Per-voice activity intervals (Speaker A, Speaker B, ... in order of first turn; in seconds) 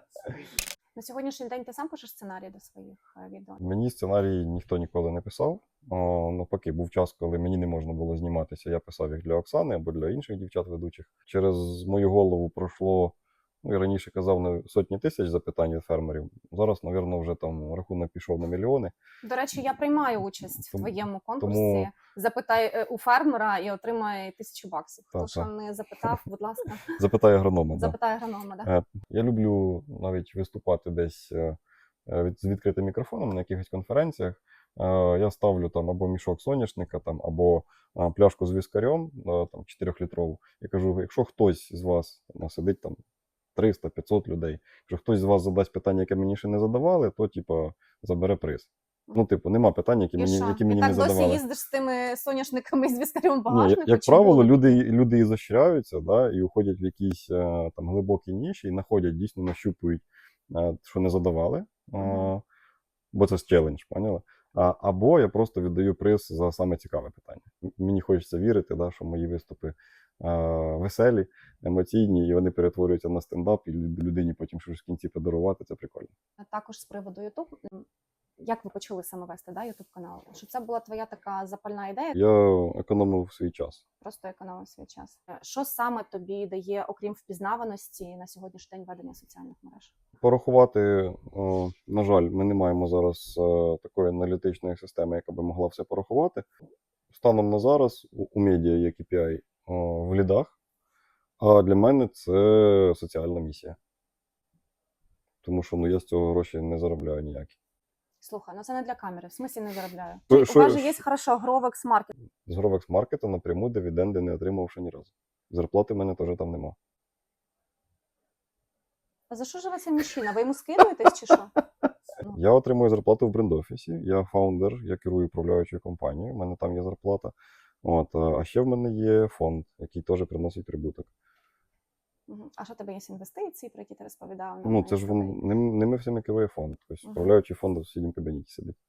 Speaker A: 0.9-3.6, 19.2-26.9, 27.8-28.7, 50.2-54.8, 62.0-62.3, 76.4-77.8, 78.4-82.2, 84.0-89.9, 108.2-112.1, 119.3-121.5, 132.3-135.4, 137.0-137.3
Speaker B: 3.6-18.9, 20.6-21.9, 25.1-25.5, 27.0-28.0, 28.6-43.0, 43.5-51.4, 53.5-62.4, 63.1-76.1, 82.1-83.8, 90.2-96.5, 97.1-100.5, 101.4-103.8, 105.4-107.6, 110.3-111.0, 112.5-116.8, 122.3-131.1, 134.6-138.8